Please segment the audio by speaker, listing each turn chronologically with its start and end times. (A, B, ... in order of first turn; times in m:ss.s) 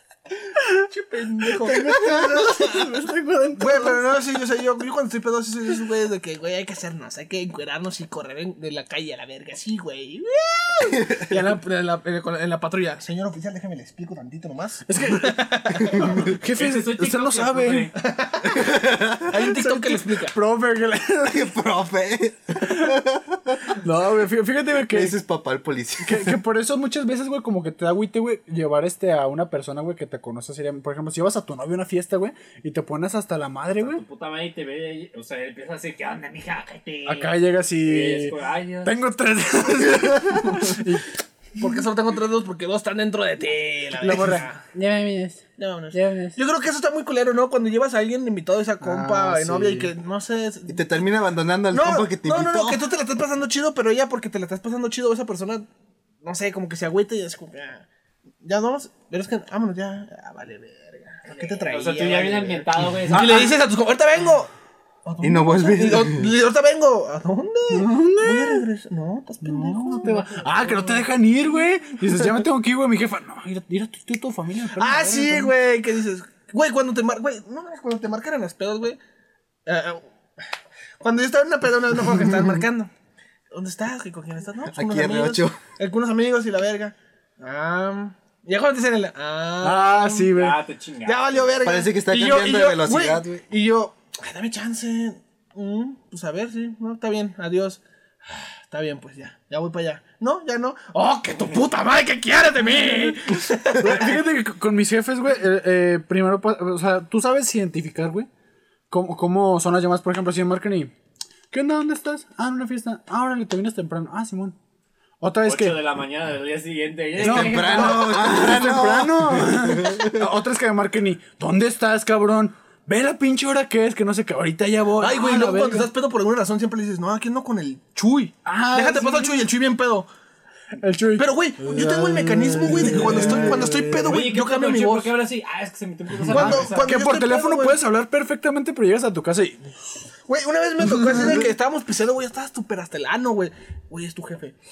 0:00.8-0:02.3 A
0:01.4-0:04.2 B
0:03.6-0:16.3 A
0:14.8-0:17.9 B
0:16.5-0:17.9 C
0:18.0-0:20.3 A
0:18.6-0:19.3 D
0:19.4-0:21.5 B
0:21.2-0:23.6 D
0:23.8-0:25.2 B
0:24.9-0:26.4 D
0:26.0-0:34.0 B
0:33.8-0:38.9 C
0:37.0-0:41.1 B
0:41.6-0:44.6 A
0:44.0-0:46.4 B
0:45.6-0:50.8 A
0:48.8-0:49.9 B
0:50.7-0:52.9 D
0:51.7-0:55.7 A
0:56.2-0:57.8 A
0:58.4-1:04.5 A
1:01.3-1:03.6 C
1:03.1-1:03.5 B
1:05.0-1:10.2 A
1:05.2-1:06.3 D
1:07.7-1:08.6 B
1:09.4-1:15.5 B
1:10.2-1:11.0 C
1:14.8-1:19.0 A
1:19.6-1:20.1 A
1:21.0-1:22.9 A
1:23.5-1:30.3 A
1:24.6-1:25.6 D
1:29.6-1:30.6 B
1:30.3-1:31.6 C
1:31.0-1:44.2 A
1:31.6-1:33.3 D
1:43.7-1:48.3 B
1:48.9-1:50.9 B
1:51.5-1:54.6 B
1:55.2-1:55.8 B
1:55.4-1:58.2 C
1:57.2-2:00.3 D
1:57.2-2:05.9 B
2:05.0-2:10.1 A
2:08.4-2:09.5 B
2:10.8-2:14.3 B
2:11.2-2:15.2 A
2:13.0-2:17.0 C
2:16.2-2:17.8 A
2:16.3-2:19.8 B
2:20.3-2:24.5 A
2:21.0-2:21.3 B